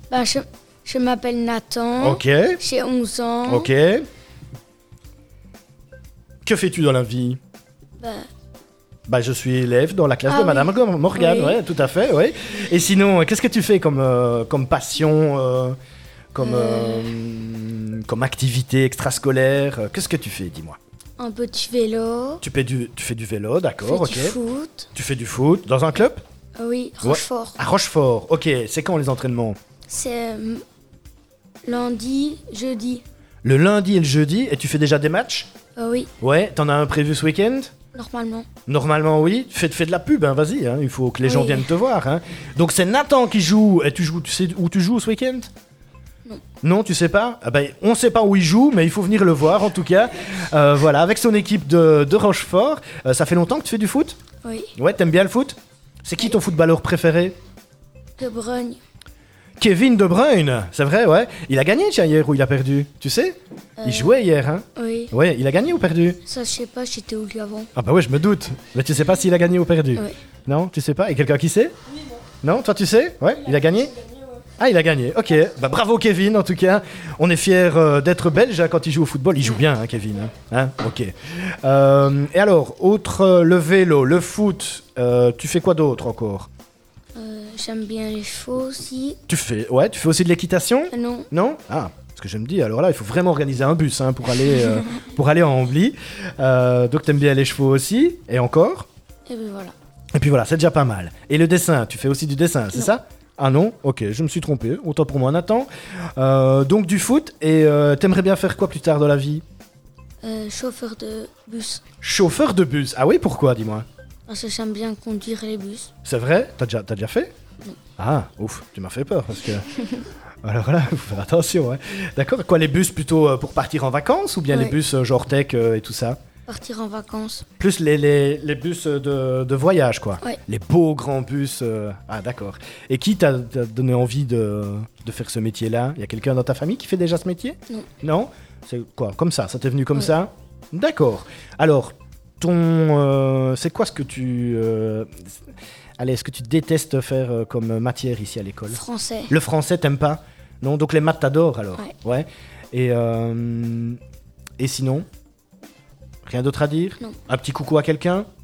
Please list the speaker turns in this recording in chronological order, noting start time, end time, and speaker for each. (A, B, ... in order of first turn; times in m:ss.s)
0:00.1-0:03.6 A
0:02.0-0:02.6 B
0:03.4-0:04.0 B
0:06.4-0:07.4 B
0:08.0-0:08.3 A
0:09.1-0:15.8 B
0:10.3-0:10.6 A
0:11.1-0:11.5 A
0:16.3-0:20.8 B
0:16.4-0:17.1 A
0:21.2-0:22.4 A
0:22.4-0:24.4 B
0:23.8-0:24.9 A
0:24.9-0:26.2 B
0:26.6-0:27.6 A
0:27.0-0:29.6 B
0:29.9-0:30.6 A
0:31.6-0:33.0 A
0:33.4-0:35.5 B
0:35.8-0:36.1 A
0:36.2-0:37.7 B
0:37.9-0:38.4 A
0:38.7-0:45.5 B
0:41.3-0:41.6 A
0:46.6-0:54.2 B
0:54.8-0:57.3 B
0:58.2-0:58.8 A
0:59.6-1:06.2 B
1:03.8-1:04.1 A
1:04.8-1:05.1 A
1:06.2-1:07.7 A
1:07.7-1:11.7 B
1:12.4-1:13.9 B
1:14.6-1:26.5 B
1:27.1-1:29.2 A
1:29.3-1:38.9 B
1:30.9-1:31.3 A
1:39.3-1:39.7 A
1:40.1-1:49.4 B
1:50.2-1:51.8 A
1:52.0-1:53.8 B
1:54.3-1:55.9 A
1:56.0-1:57.3 B
1:58.0-1:59.6 B
2:00.4-2:06.2 B
2:06.5-2:07.4 A
2:07.6-2:25.1 B
2:26.0-2:34.0 B
2:28.8-2:29.3 A
2:34.6-2:35.0 B
2:36.2-2:38.3 B